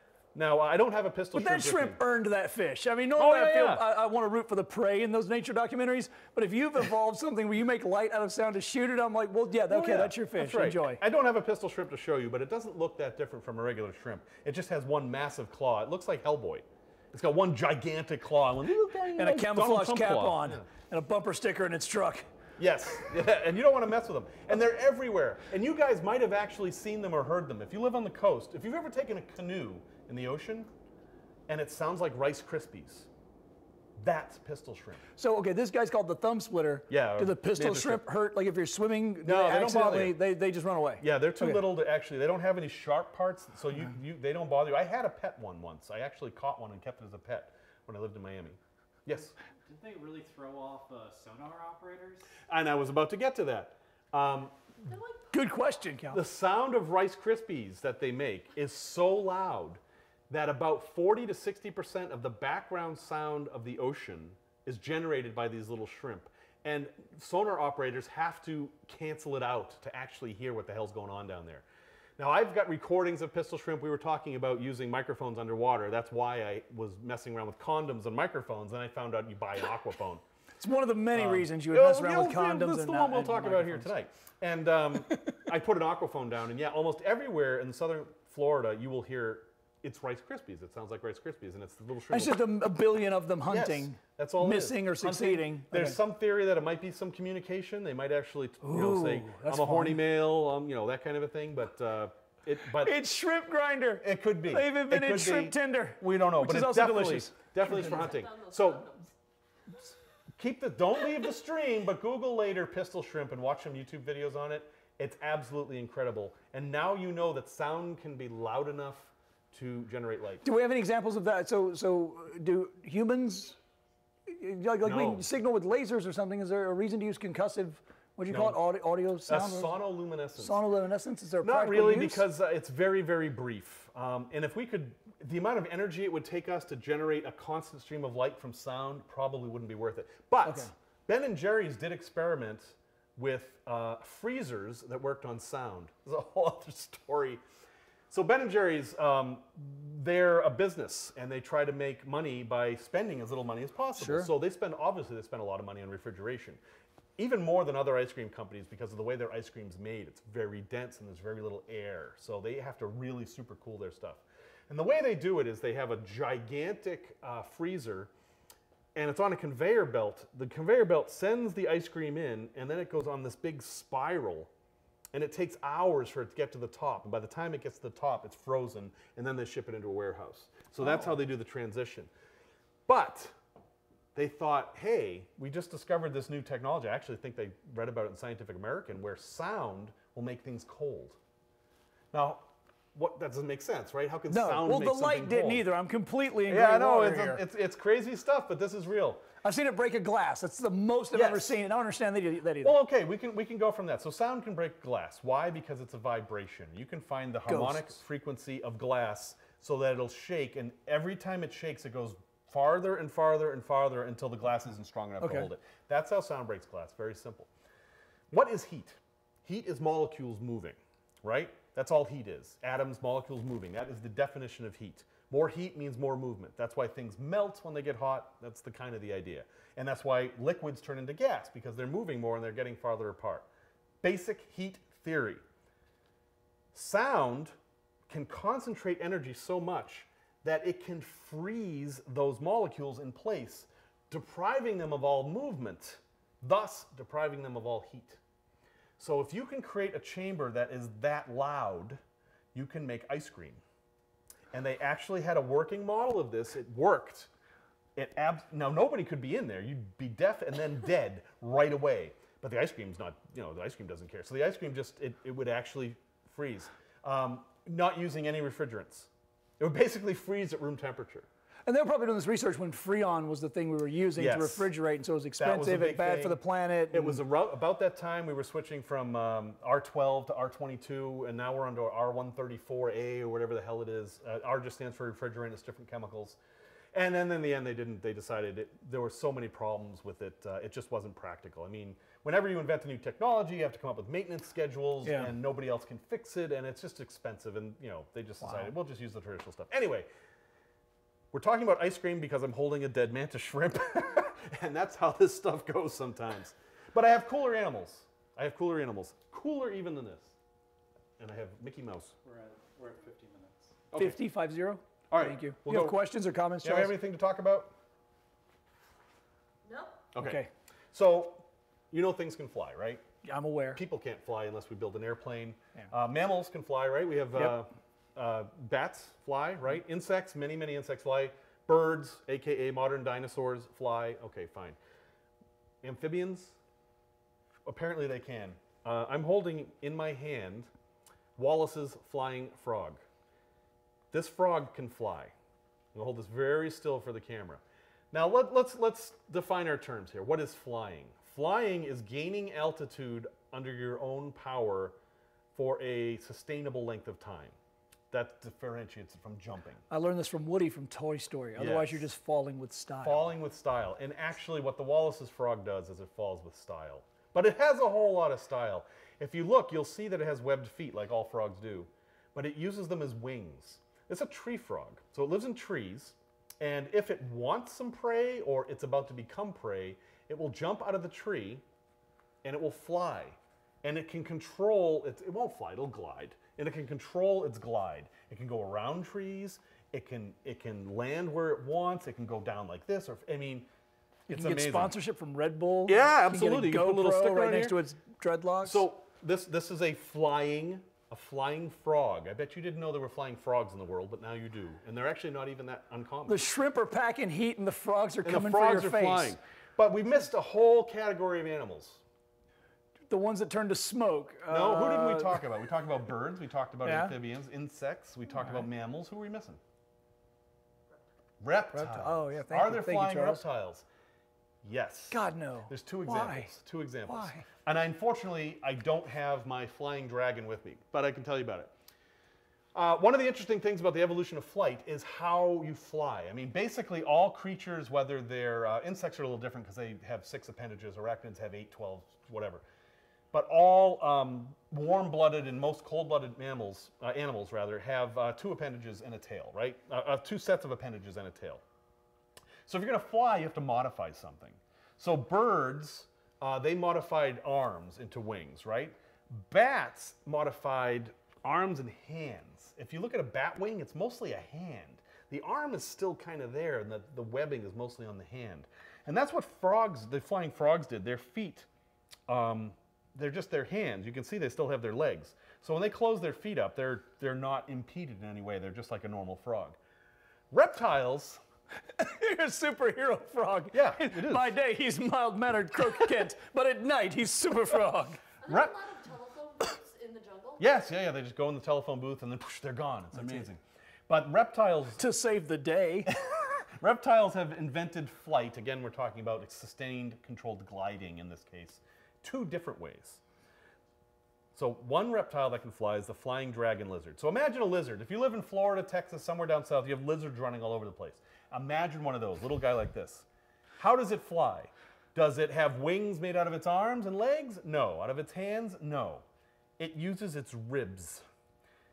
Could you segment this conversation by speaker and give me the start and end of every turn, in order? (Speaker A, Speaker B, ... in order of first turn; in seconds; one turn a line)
Speaker A: 0.3-2.0
Speaker B: 1.4-11.0
Speaker A: 3.2-3.8
Speaker A: 9.7-20.7
Speaker B: 19.2-22.3
Speaker A: 22.6-30.7
Speaker A: 31.5-33.1
Speaker A: 34.0-35.0
Speaker B: 35.2-41.6
Speaker A: 36.9-38.0
Speaker A: 39.2-40.2
Speaker A: 41.0-49.3
Speaker C: 49.7-52.3
Speaker A: 52.5-55.0
Speaker D: 54.9-55.3
Speaker B: 55.3-56.2
Speaker A: 56.1-71.7
Speaker A: 72.2-80.2
Speaker B: 80.6-83.9
Speaker A: 81.1-92.4
Speaker B: 92.1-96.0
Speaker A: 93.5-103.0
Speaker B: 98.6-100.0
Speaker B: 102.8-108.0
Speaker A: 104.0-108.9
Speaker D: 107.7-109.1
Speaker A: 110.4-120.4
Speaker B: 120.4-123.6
Speaker B: 124.3-129.7
Speaker A: 124.8-125.2
Speaker A: 128.3-128.6
Speaker A: 129.3-130.6
Speaker B: 130.4-132.2
Speaker A: 131.4-147.4
Speaker B: 140.4-140.7
Speaker A: 148.1-156.6
Speaker B: 154.0-154.3
Speaker A: 157.2-168.1
Speaker A: 168.9-174.5
Speaker A: 175.1-182.1
Speaker A: 182.9-183.3
Speaker A: 184.2-191.2
Speaker A: 192.1-195.7
Speaker B: 194.3-197.4
Speaker A: 196.5-199.2
Speaker B: 199.4-202.8
Speaker A: 201.1-201.6
Speaker A: 202.6-217.5
Speaker B: 207.5-208.0
Speaker B: 215.2-215.5
Speaker A: 218.3-233.5
Speaker A: 234.0-235.4
Speaker A: 236.7-237.6
Speaker A: 238.1-248.2
Speaker A: 249.0-252.0
Speaker A: 252.5-253.6
Speaker A: 254.5-257.3
Speaker A: 258.0-271.3
Speaker B: 271.7-277.2
Speaker A: 274.2-274.7
Speaker A: 275.4-276.4
Speaker A: 276.9-286.4
Speaker A: 286.9-300.1
Speaker B: 295.0-295.3
Speaker A: 301.3-310.3
Speaker A: 311.2-312.1
Speaker C: 312.2-313.8
Speaker A: 313.9-314.2
Speaker B: 314.0-316.9
Speaker A: 315.1-316.0
Speaker A: 316.6-317.7
Speaker D: 319.6-320.0
Speaker A: 320.1-323.0
Speaker B: 320.2-320.5
Speaker B: 323.2-323.8
Speaker A: 323.8-334.8
Speaker A: 335.8-336.6
Speaker A: 337.6-340.7
Speaker A: 341.4-343.0
Speaker A: 344.1-345.3
Speaker A: 345.9-355.0
Speaker A: 355.5-357.6
Speaker A: 358.1-359.8
Speaker B: 359.9-363.3
Speaker A: 361.6-362.1
Speaker A: 363.0-381.6
Speaker A: 382.4-393.7
Speaker A: 394.3-394.9
Speaker B: 394.3-398.9
Speaker A: 395.9-397.8
Speaker A: 398.6-406.4
Speaker B: 406.3-409.4
Speaker A: 408.2-412.0
Speaker B: 413.1-415.4
Speaker A: 414.5-419.6
Speaker B: 416.8-417.1
Speaker A: 421.4-423.9
Speaker B: 421.7-423.4
Speaker A: 424.6-431.7
Speaker B: 425.1-426.5
Speaker B: 427.1-427.4
Speaker A: 432.7-442.6
Speaker A: 443.3-451.6
Speaker A: 452.7-471.7
Speaker A: 472.3-479.8
Speaker A: 480.5-481.4
Speaker B: 481.9-488.2
Speaker A: 483.7-484.6
Speaker D: 488.4-490.6
Speaker A: 488.5-488.7
Speaker A: 490.6-495.0
Speaker B: 493.1-493.5
Speaker B: 495.0-496.1
Speaker A: 496.1-503.2
Speaker A: 504.5-513.3
Speaker A: 513.8-519.2
Speaker A: 519.8-521.2